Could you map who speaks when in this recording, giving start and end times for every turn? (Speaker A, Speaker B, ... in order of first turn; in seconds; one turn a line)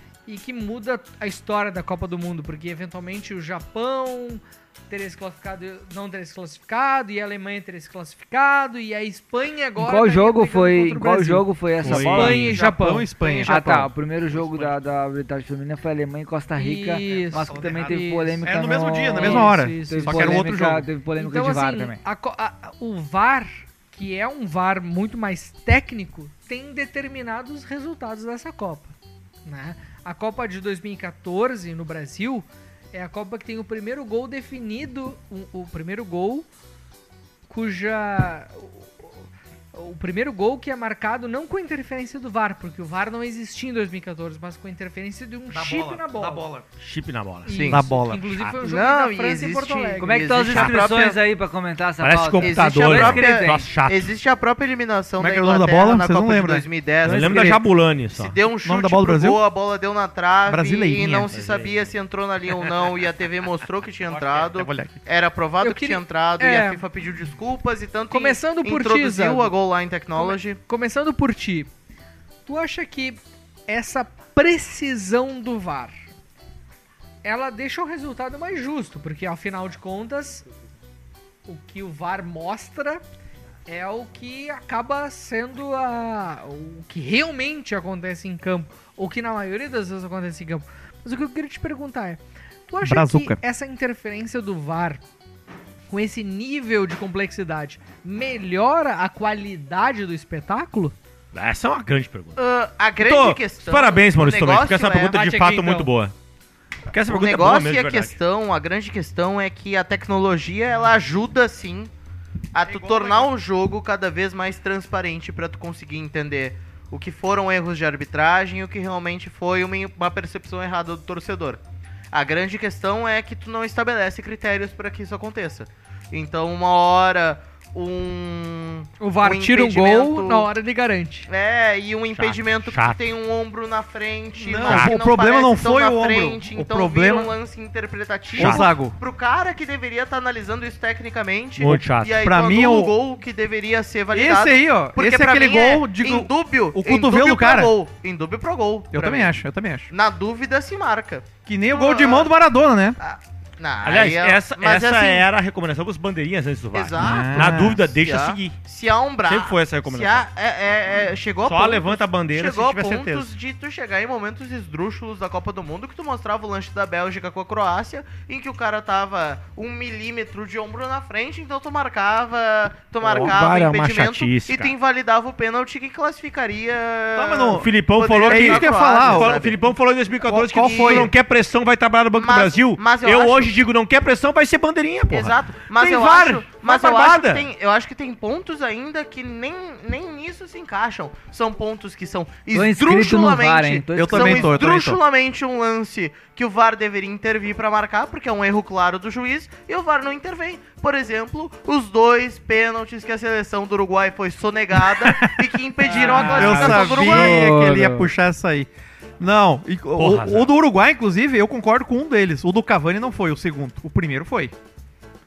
Speaker A: 0.3-13.8
Speaker B: 9.8-12.5
Speaker C: 11.8-12.6
Speaker D: 11.9-14.7
Speaker B: 13.4-22.0
Speaker A: 16.6-18.5
Speaker D: 17.3-20.9
Speaker A: 19.1-20.5
Speaker A: 21.1-28.9
Speaker A: 29.4-36.5
Speaker A: 37.5-46.5
Speaker D: 45.5-46.6
Speaker C: 46.8-48.6
Speaker A: 47.5-50.4
Speaker E: 47.5-47.8
Speaker D: 47.7-48.2
Speaker E: 48.6-51.2
Speaker B: 50.0-53.7
Speaker C: 50.5-50.8
Speaker C: 52.0-54.1
Speaker E: 52.4-57.6
Speaker D: 55.2-57.6
Speaker C: 57.0-58.4
Speaker E: 58.1-70.6
Speaker D: 58.6-59.4
Speaker D: 60.5-61.3
Speaker C: 61.3-61.9
Speaker C: 64.2-64.5
Speaker D: 64.5-65.0
Speaker A: 65.6-66.8
Speaker A: 68.1-69.5
Speaker A: 70.1-71.7
Speaker A: 72.5-75.9
Speaker A: 77.2-80.4
Speaker A: 81.5-83.0
Speaker A: 83.7-95.0
Speaker D: 92.8-93.4
Speaker A: 95.9-100.9
Speaker C: 101.3-102.4
Speaker E: 102.4-105.2
Speaker C: 103.0-106.1
Speaker A: 105.2-105.9
Speaker C: 106.9-108.2
Speaker E: 107.1-111.9
Speaker E: 112.5-121.6
Speaker D: 112.6-113.3
Speaker E: 122.1-130.5
Speaker A: 129.0-131.3
Speaker E: 131.3-149.4
Speaker C: 132.1-133.0
Speaker D: 134.4-137.3
Speaker C: 134.6-135.0
Speaker C: 138.4-138.7
Speaker D: 138.4-139.0
Speaker C: 141.6-142.2
Speaker D: 142.2-142.9
Speaker D: 144.1-147.7
Speaker D: 148.9-149.9
Speaker E: 149.9-152.3
Speaker D: 151.4-153.0
Speaker E: 153.0-155.2
Speaker C: 153.8-158.6
Speaker E: 156.7-179.7
Speaker D: 157.0-157.8
Speaker C: 159.2-160.2
Speaker C: 161.4-163.3
Speaker C: 173.0-174.7
Speaker D: 177.1-177.7
Speaker C: 177.5-187.5
Speaker D: 178.2-179.4
Speaker D: 180.3-181.1
Speaker E: 180.6-181.1
Speaker E: 182.2-183.6
Speaker E: 185.1-207.5
Speaker B: 192.5-194.6
Speaker D: 193.9-195.0
Speaker D: 204.8-208.7
Speaker B: 205.9-208.1
Speaker C: 206.0-207.1
Speaker D: 209.2-214.5
Speaker C: 209.9-210.5